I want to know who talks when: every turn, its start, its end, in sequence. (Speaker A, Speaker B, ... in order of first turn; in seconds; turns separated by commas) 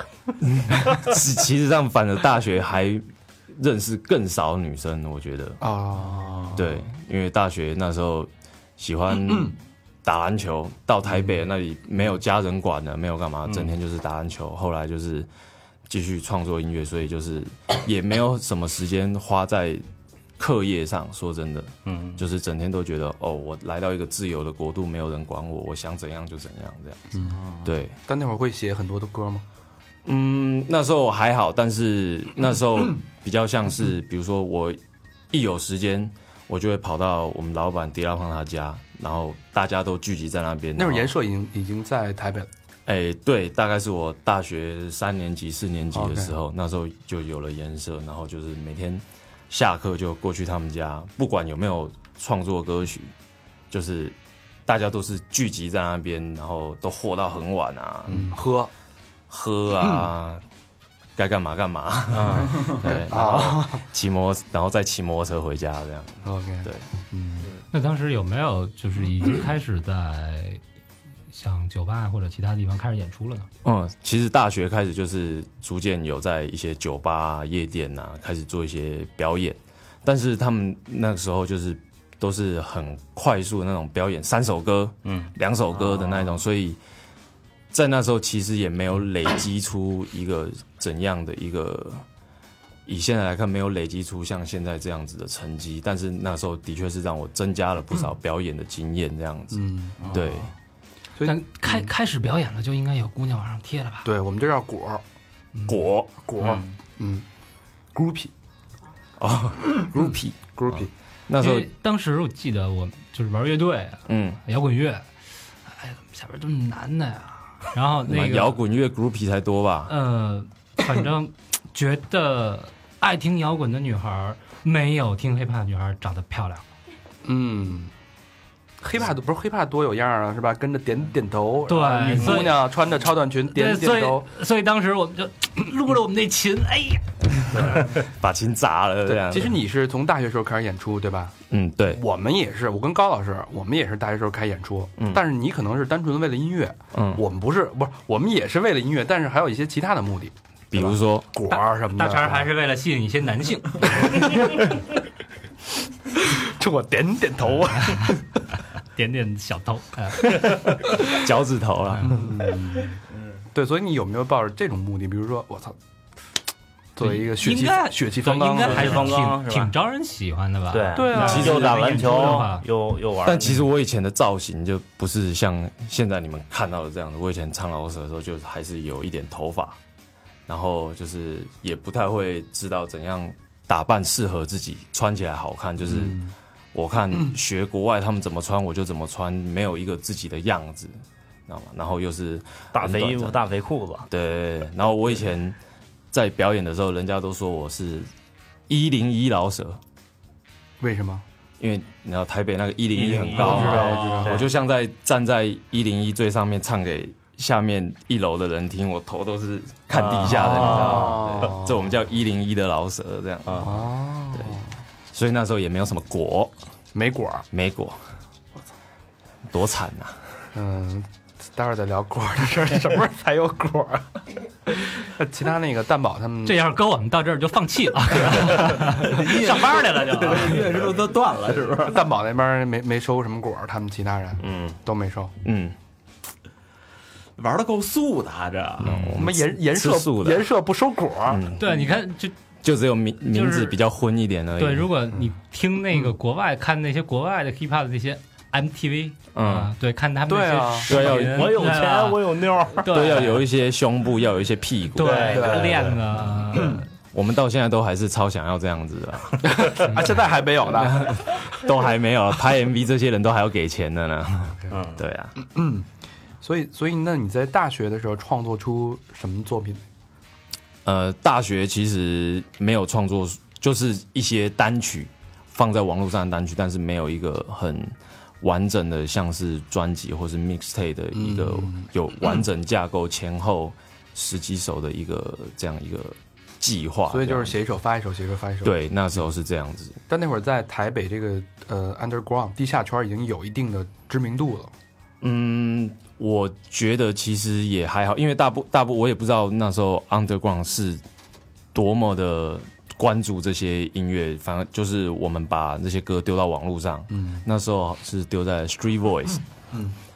Speaker A: 0.4-5.6, Speaker B: 5.6-6.6, Speaker C: 6.1-6.6, Speaker A: 6.5-15.3, Speaker A: 15.9-19.8, Speaker A: 20.4-27.9, Speaker D: 21.9-22.2, Speaker C: 27.3-27.7, Speaker B: 28.1-29.4, Speaker A: 30.0-34.8, Speaker A: 35.3-41.1, Speaker B: 40.8-42.5, Speaker A: 42.9-53.1, Speaker B: 45.9-46.3, Speaker A: 53.7-58.3, Speaker B: 58.1-58.7, Speaker A: 59.3-60.4, Speaker A: 61.1-66.8, Speaker D: 62.1-62.6, Speaker B: 62.8-63.8, Speaker B: 66.2-67.5, Speaker E: 67.7-70.6, Speaker E: 71.3-73.5, Speaker A: 73.6-86.8, Speaker D: 85.0-85.3, Speaker A: 87.7-92.0, Speaker A: 92.8-100.5, Speaker B: 99.5-100.0, Speaker C: 100.0-100.4, Speaker B: 101.2-101.9, Speaker E: 101.2-104.1, Speaker B: 104.0-105.0, Speaker A: 105.7-106.1, Speaker B: 106.2-107.2, Speaker D: 106.4-106.7, Speaker B: 107.9-108.3, Speaker A: 109.2-111.7, Speaker B: 110.5-110.9, Speaker E: 111.4-115.1, Speaker A: 114.1-114.4, Speaker E: 115.7-118.6, Speaker A: 118.0-119.9, Speaker E: 119.9-126.6, Speaker B: 127.2-127.9, Speaker B: 128.8-134.3, Speaker E: 131.7-132.7, Speaker E: 133.4-137.9, Speaker A: 137.8-139.6, Speaker B: 139.1-141.3, Speaker A: 141.5-142.0, Speaker B: 141.9-152.5, Speaker A: 146.9-147.2, Speaker A: 150.7-151.3, Speaker E: 151.9-154.3, Speaker B: 153.9-154.6, Speaker B: 156.2-158.1, Speaker E: 158.9-160.9, Speaker A: 161.0-162.2, Speaker B: 162.0-163.0, Speaker B: 163.5-165.8, Speaker B: 166.9-169.2, Speaker E: 167.0-172.6, Speaker D: 168.6-169.7, Speaker D: 170.7-173.6, Speaker B: 170.9-171.6, Speaker A: 171.1-172.4, Speaker A: 173.2-179.8, Speaker A: 180.5-186.2, Speaker B: 185.9-186.3, Speaker A: 186.7-193.4, Speaker D: 192.7-194.1, Speaker A: 194.1-195.6, Speaker A: 196.1-198.1, Speaker A: 198.7-199.8, Speaker B: 200.8-201.2, Speaker A: 201.6-213.8, Speaker D: 203.1-204.5, Speaker C: 203.1-204.2, Speaker B: 203.3-204.4, Speaker D: 209.9-211.4, Speaker B: 210.2-211.9, Speaker B: 213.6-214.7, Speaker A: 215.1-216.5, Speaker B: 216.9-217.4, Speaker A: 217.5-218.0, Speaker A: 219.5-220.3, Speaker B: 220.5-226.6, Speaker E: 226.4-230.7, Speaker C: 228.8-232.0, Speaker B: 231.8-235.3, Speaker A: 234.4-234.8, Speaker A: 235.4-235.8, Speaker C: 237.4-239.0, Speaker A: 238.8-240.5, Speaker B: 238.9-241.4, Speaker A: 241.3-241.9, Speaker E: 241.6-242.3, Speaker A: 242.6-244.9, Speaker E: 243.2-243.8, Speaker E: 244.6-253.4, Speaker A: 249.3-249.7, Speaker B: 250.3-250.9, Speaker A: 250.9-251.7, Speaker D: 251.0-253.2, Speaker A: 252.8-255.4, Speaker E: 254.9-256.9, Speaker D: 255.0-256.0, Speaker B: 255.3-256.0, Speaker A: 257.1-260.0, Speaker B: 259.4-261.2, Speaker A: 260.6-265.3, Speaker D: 264.7-265.0, Speaker B: 265.4-265.9, Speaker B: 266.4-269.8, Speaker A: 270.8-287.5, Speaker B: 281.1-281.9, Speaker B: 287.1-288.7, Speaker A: 288.6-290.0, Speaker B: 290.1-294.7, Speaker A: 295.2-301.0, Speaker A: 301.7-309.4, Speaker B: 307.1-307.4